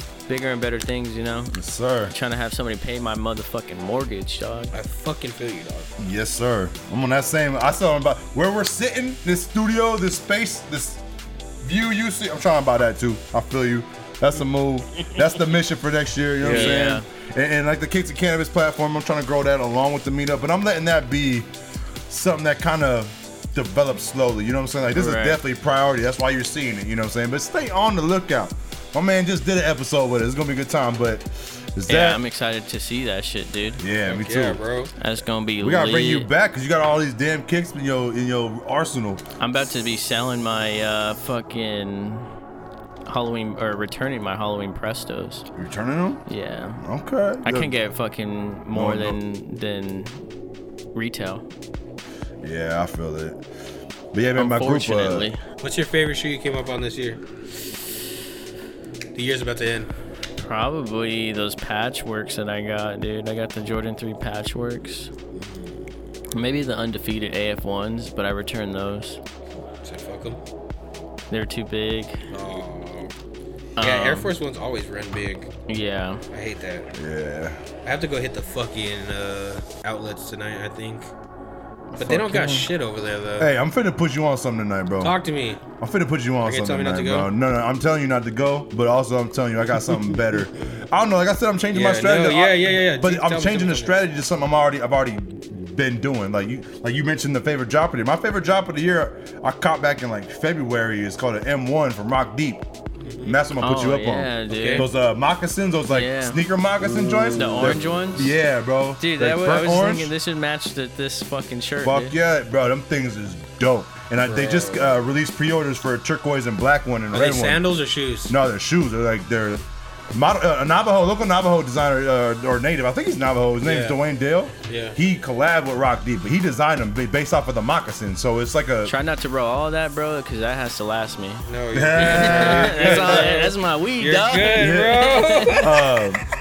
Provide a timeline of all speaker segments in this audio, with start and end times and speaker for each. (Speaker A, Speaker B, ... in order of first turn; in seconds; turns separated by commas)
Speaker A: 0.3-1.6, Speaker B: 1.5-2.1, Speaker A: 2.1-4.7, Speaker C: 4.7-5.9, Speaker B: 6.0-11.0, Speaker B: 11.6-21.5, Speaker C: 16.4-16.8, Speaker A: 16.4-17.1, Speaker B: 22.1-32.2, Speaker A: 24.9-25.4, Speaker A: 31.9-33.8, Speaker B: 33.8-34.6, Speaker C: 34.0-34.9, Speaker A: 35.0-36.3, Speaker B: 35.6-39.2, Speaker A: 39.4-42.3, Speaker A: 43.1-45.5, Speaker B: 45.5-46.2, Speaker A: 46.3-46.8, Speaker B: 46.8-47.7, Speaker A: 47.4-50.2, Speaker B: 48.7-49.2, Speaker A: 50.9-51.4, Speaker B: 52.4-53.4, Speaker B: 54.1-55.3, Speaker A: 54.4-55.4, Speaker C: 55.6-57.2, Speaker C: 59.1-59.9, Speaker A: 60.4-65.1, Speaker C: 65.3-65.7, Speaker A: 66.3-69.2, Speaker C: 69.8-70.4, Speaker A: 71.3-72.2, Speaker C: 72.3-73.1, Speaker C: 73.8-75.5, Speaker A: 73.8-74.3, Speaker A: 75.7-76.2, Speaker C: 76.3-76.9, Speaker B: 76.9-77.6, Speaker C: 77.8-81.1, Speaker C: 82.0-83.5, Speaker A: 82.0-82.7, Speaker B: 83.4-85.2, Speaker C: 85.0-85.6, Speaker B: 85.8-102.6, Speaker C: 86.4-87.3, Speaker C: 91.7-94.0, Speaker C: 103.0-103.3, Speaker B: 103.2-110.1, Speaker A: 103.6-104.9, Speaker C: 104.5-104.8, Speaker A: 105.9-106.4, Speaker A: 107.3-108.3, Speaker A: 109.0-112.2, Speaker B: 111.8-117.6, Speaker C: 114.2-115.0, Speaker C: 117.1-118.3, Speaker B: 118.3-128.9, Speaker C: 123.6-124.0, Speaker C: 124.6-125.0, Speaker A: 128.8-135.6, Speaker C: 131.4-136.2, Speaker B: 131.7-133.4, Speaker B: 134.5-136.2